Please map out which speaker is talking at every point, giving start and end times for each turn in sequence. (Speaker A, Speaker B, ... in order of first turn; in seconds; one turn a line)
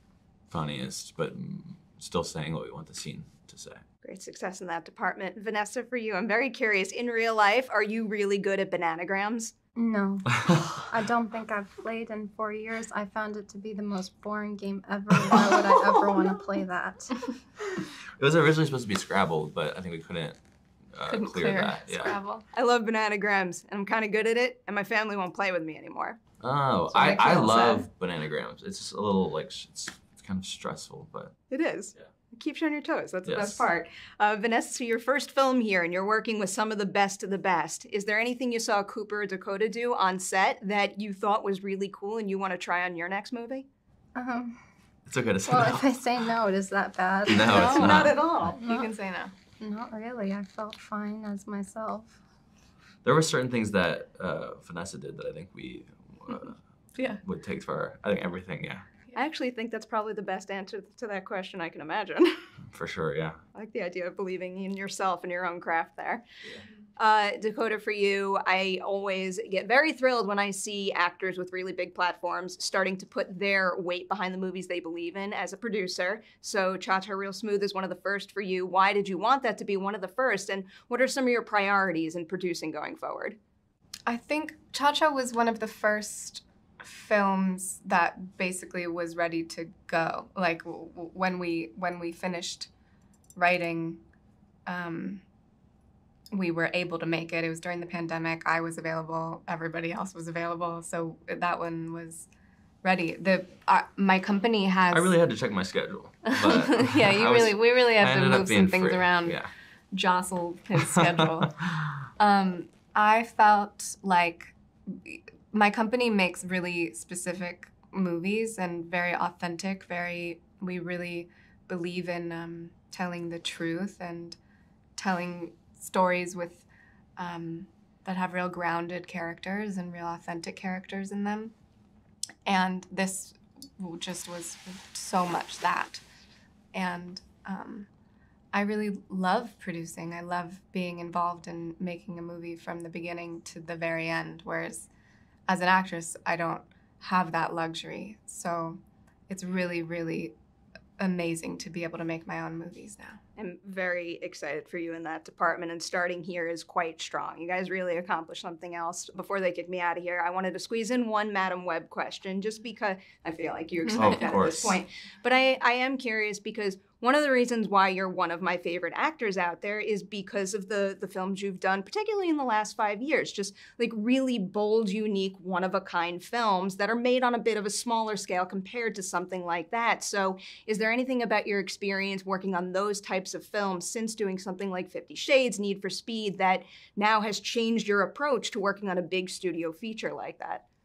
Speaker A: 0.5-3.8
Speaker B: 4.0-9.5
Speaker C: 9.8-17.1
Speaker A: 18.2-20.4
Speaker A: 20.9-22.2
Speaker D: 21.1-22.4
Speaker B: 22.5-26.2
Speaker A: 26.4-31.3
Speaker B: 26.9-27.8
Speaker B: 31.5-43.6
Speaker A: 33.2-33.6
Speaker C: 44.1-44.5
Speaker A: 45.0-46.2
Speaker C: 45.5-48.9
Speaker A: 47.2-48.5
Speaker B: 47.4-48.6
Speaker D: 48.6-49.3
Speaker C: 49.6-52.2
Speaker A: 53.0-56.6
Speaker D: 56.9-57.2
Speaker A: 57.2-58.9
Speaker B: 59.1-62.4
Speaker A: 62.7-63.4
Speaker B: 63.5-66.2
Speaker B: 67.0-83.4
Speaker D: 84.0-92.7
Speaker D: 93.3-94.0
Speaker D: 94.7-95.2
Speaker D: 96.3-102.3
Speaker D: 102.8-105.1
Speaker A: 104.9-109.5
Speaker D: 106.2-111.6
Speaker A: 110.8-112.0
Speaker D: 112.2-124.4
Speaker D: 125.0-131.5
Speaker D: 132.4-136.0
Speaker D: 136.7-137.9
Speaker D: 138.5-144.9
Speaker D: 145.5-150.3
Speaker D: 151.0-153.2
Speaker B: 153.4-190.6
Speaker D: 163.9-164.3
Speaker A: 163.9-164.8